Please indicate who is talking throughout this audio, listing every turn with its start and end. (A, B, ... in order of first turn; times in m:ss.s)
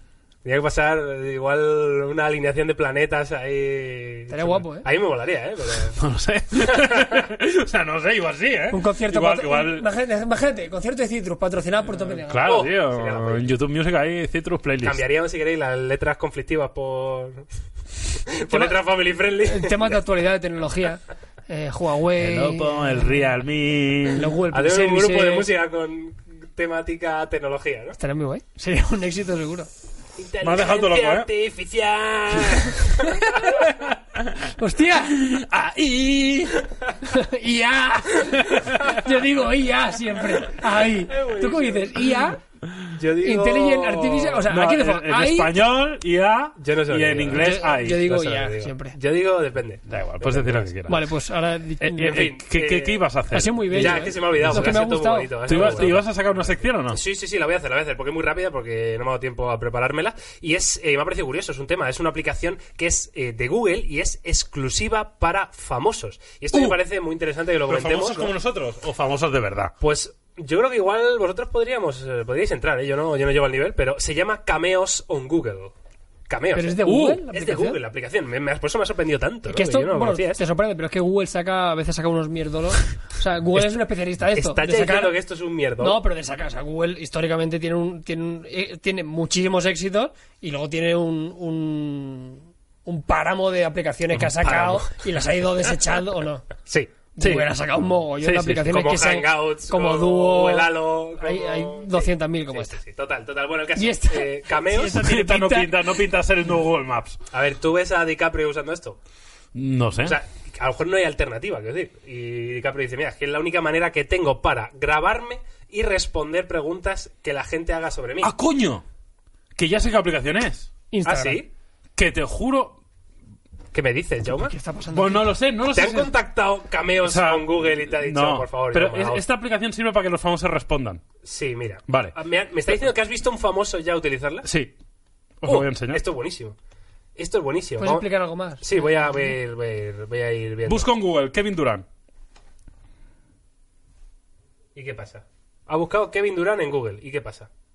0:00.4-0:06.0 A
0:04.3-0:04.9 B
0:06.0-0:09.9 C
0:06.6-0:07.2 A
0:08.7-0:12.5 B
0:12.3-0:15.0 C
0:12.4-0:13.5 A
0:14.8-0:17.4 A
0:18.3-0:20.0 A
0:18.5-0:18.8 B
0:19.4-0:23.3 B
0:22.2-0:24.3 C
0:24.1-0:25.5 B
0:24.5-0:28.0 A
0:28.0-0:29.7 B
0:30.2-0:33.7 A
0:30.4-0:31.3 C
0:33.3-0:34.5 C
0:34.6-0:35.2 B
0:35.1-0:36.7 C
0:37.0-0:42.4 B
0:38.5-0:39.0 C
0:41.0-0:42.2 A
0:42.9-0:44.4 A
0:43.2-0:45.6 B
0:44.5-0:48.0 C
0:46.6-0:50.7 A
0:47.3-0:49.0 B
0:49.9-0:51.1 C
0:50.9-0:52.3 B
0:51.8-0:54.8 C
0:52.0-0:53.0 A
0:53.3-0:55.9 B
0:53.7-1:08.3 A
0:55.4-0:57.0 C
1:06.5-1:06.8 C
1:07.6-1:09.7 C
1:09.8-1:15.7 A
1:16.3-1:20.4 A
1:16.5-1:17.8 B
1:16.8-1:17.2 C
1:19.5-1:25.2 B
1:23.5-1:26.0 A
1:25.8-1:36.5 B
1:34.4-1:34.9 A
1:37.2-1:40.7 B
1:37.2-1:37.5 C
1:38.2-1:38.7 C
1:38.6-1:45.0 A
1:41.2-1:42.7 B
1:43.8-1:45.9 B
1:44.9-1:47.2 C
1:47.3-1:49.0 A
1:49.5-1:50.2 C
1:50.0-1:58.3 A
1:58.2-1:58.8 C
1:59.6-2:00.7 C
2:00.9-2:01.4 B
2:01.0-2:01.5 A
2:02.0-2:02.8 C
2:03.7-2:04.5 A
2:04.4-2:05.3 B
2:04.9-2:06.1 C
2:05.7-2:09.2 A
2:07.0-2:11.0 C
2:11.2-2:14.5 A
2:11.9-2:12.1 C
2:14.4-2:14.7 C
2:15.4-2:16.0 C
2:15.4-2:16.6 A
2:17.2-2:18.1 A
2:17.8-2:19.3 B
2:18.6-2:20.9 A
2:20.6-2:21.8 C
2:24.7-2:27.5 A